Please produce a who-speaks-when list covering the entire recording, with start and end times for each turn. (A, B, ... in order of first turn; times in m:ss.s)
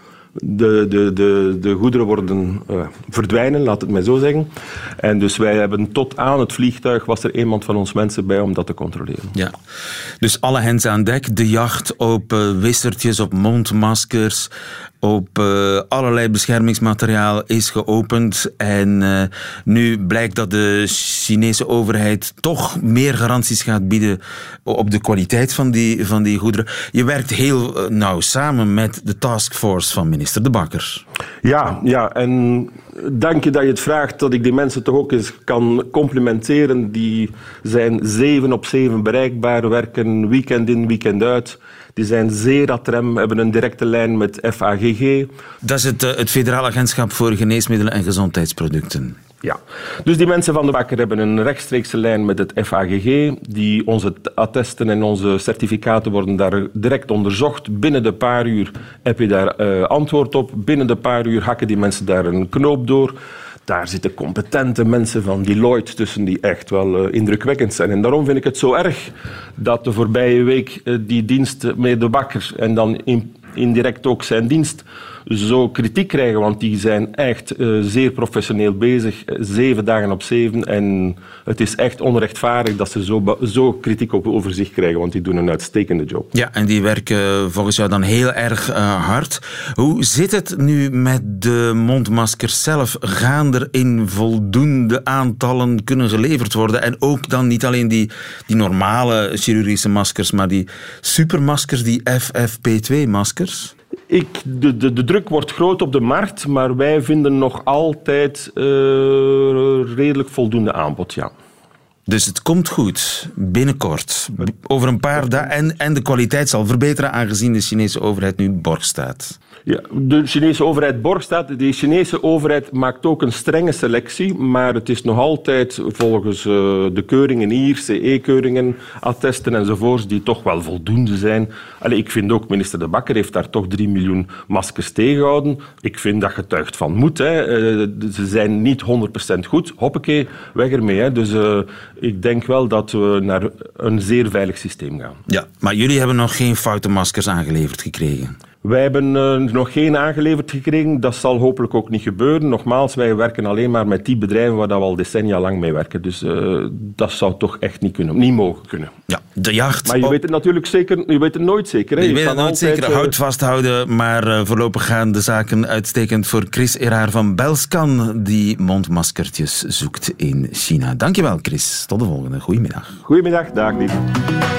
0:00.4-0:09.3 A
0:10.2-0:14.5 B
0:15.0-0:31.0 B
0:31.4-0:45.3 A
0:45.6-0:49.2 B
0:49.4-1:03.2 A
1:03.7-1:26.3 A
1:26.3-1:43.7 B
1:44.1-1:51.3 A
1:52.1-1:59.4 B
1:59.6-2:25.2 A
2:25.3-2:28.3 B
2:28.6-2:38.9 A
2:39.1-2:40.2 B
2:39.8-2:43.1 A
2:42.0-2:53.0 B
2:53.0-2:54.0 A